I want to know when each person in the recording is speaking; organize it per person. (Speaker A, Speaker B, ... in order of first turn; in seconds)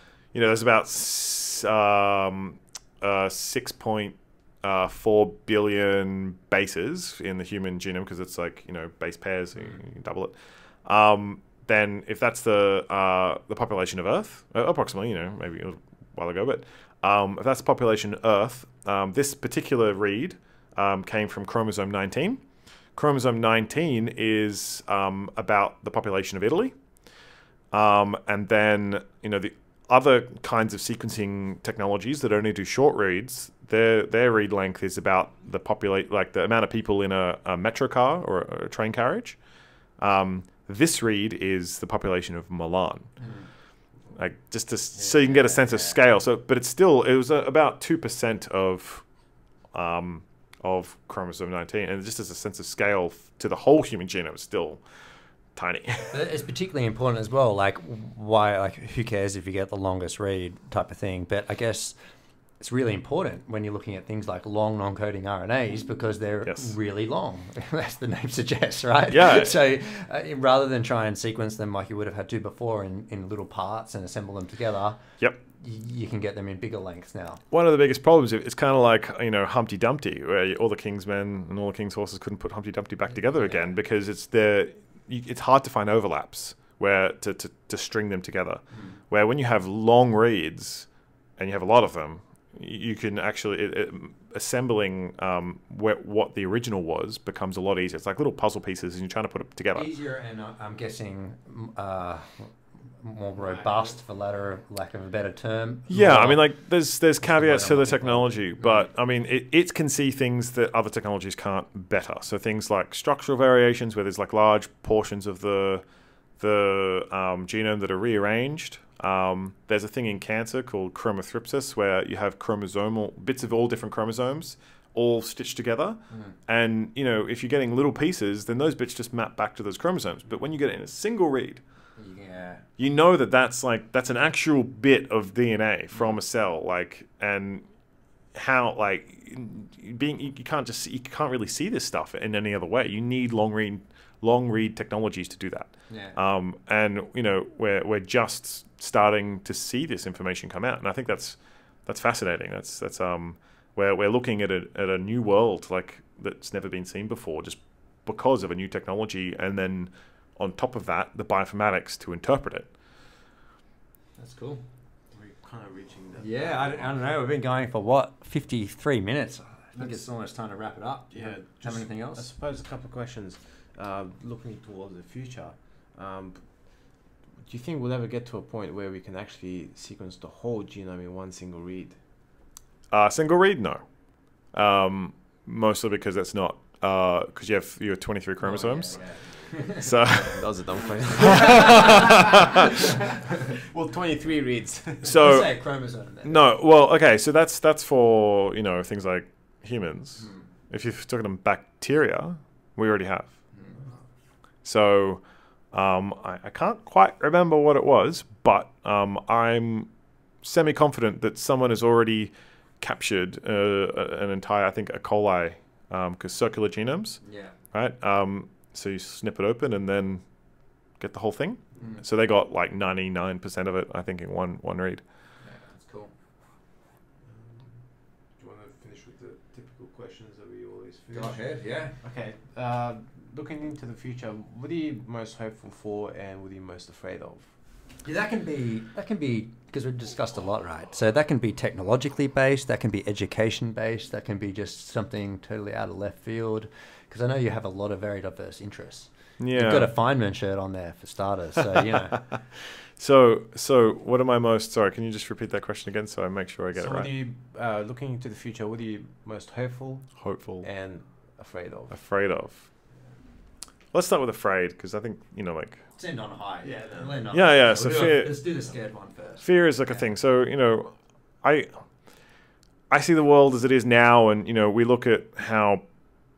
Speaker A: 0.3-10.3, 10.8-22.4, 23.0-26.8, 27.7-39.4, 40.0-43.1, 44.2-49.0, 49.7-54.8, 55.6-56.2, 66.5-66.7, 69.1-69.5, 77.5-90.9, 91.4-99.9, 105.9-115.8, 116.4-131.6, 132.8-137.7, 138.3-162.7, 182.9-183.8, 184.5-189.0, 189.8-190.4, 191.2-192.7, 195.0-195.5, 196.2-203.3, 204.6-209.9, 210.4-217.2, 217.7-220.2, 221.0-225.0, 249.4-249.9, 253.0-257.1, 260.2-260.7, 261.9-262.7, 263.9-265.8, 267.3-268.3, 269.4-271.7, 272.9-275.8
Speaker B: 43.2-43.5, 45.0-46.0, 56.1-62.0, 62.6-75.0, 75.6-77.4, 83.3-83.8, 88.7-89.0, 99.8-106.5, 107.2-108.9, 132.0-132.6, 145.9-146.2, 164.2-164.6, 166.2-172.3, 188.4-189.9, 191.2-192.4, 195.1-196.5, 200.2-200.4, 203.5-203.8, 217.2-217.5, 225.4-226.1, 231.1-231.9, 238.0-252.4, 266.0-270.1
Speaker C: 103.4-104.0, 165.1-167.2, 169.8-170.0, 171.1-176.9, 177.4-182.0, 188.9-192.7, 193.5-195.2, 227.2-231.5, 232.0-237.5, 256.7-262.0, 266.6-267.2